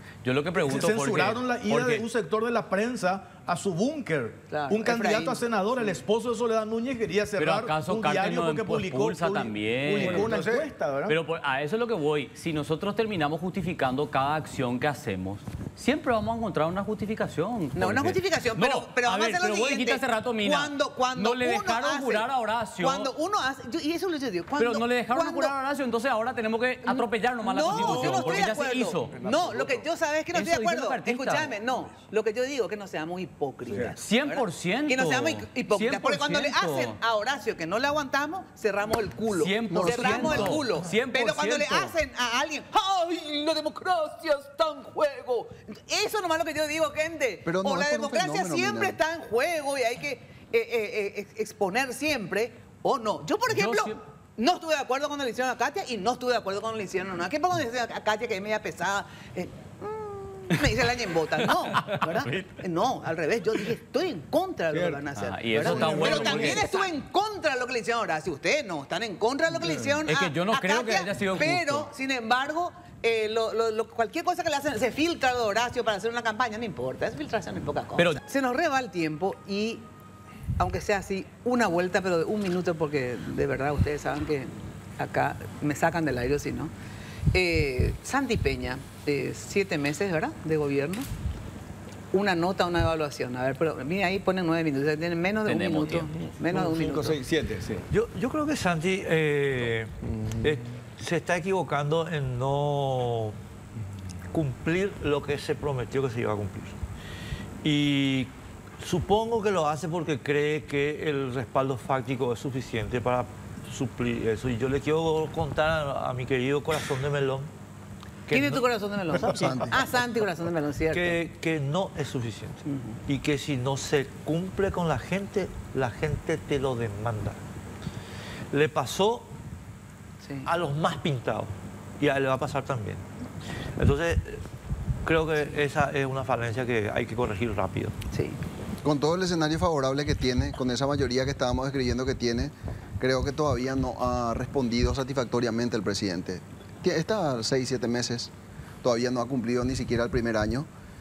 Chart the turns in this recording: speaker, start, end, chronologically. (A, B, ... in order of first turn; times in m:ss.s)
0:00.2-0:02.0 A
0:00.6-0:11.2 B
0:04.5-0:06.0 C
0:07.4-0:10.4 A
0:10.0-0:10.7 D
0:11.1-0:23.1 A
0:17.8-0:22.3 C
0:22.8-0:25.6 C
0:24.6-0:29.2 A
0:26.8-1:19.8 C
0:27.8-0:28.5 D
0:29.1-0:29.8 D
0:30.3-0:31.5 A
0:33.7-0:34.0 D
0:34.0-0:37.0 A
0:39.3-0:42.0 A
0:39.7-0:40.6 E
0:47.5-0:49.0 E
0:53.5-0:54.0 A
1:01.7-1:02.5 A
1:04.7-1:06.7 D
1:05.2-1:06.9 A
1:09.6-1:10.0 D
1:10.0-1:11.9 A
1:20.6-1:26.7 C
1:27.3-1:31.1 C
1:32.1-1:37.2 C
1:35.5-1:36.1 A
1:36.4-1:37.9 D
1:37.9-1:43.4 F
1:44.3-1:46.8 F
1:47.6-1:57.5 F
1:58.3-1:59.9 F
1:58.3-2:01.2 C
1:59.4-1:59.7 E
2:00.9-2:07.4 F
2:02.7-2:03.0 C
2:08.5-2:09.3 F
2:10.2-2:10.5 C
2:10.4-2:13.0 F
2:13.8-2:14.4 F
2:15.0-2:18.0 F
2:18.1-2:18.4 C
2:18.8-2:28.3 E
2:28.8-2:30.7 E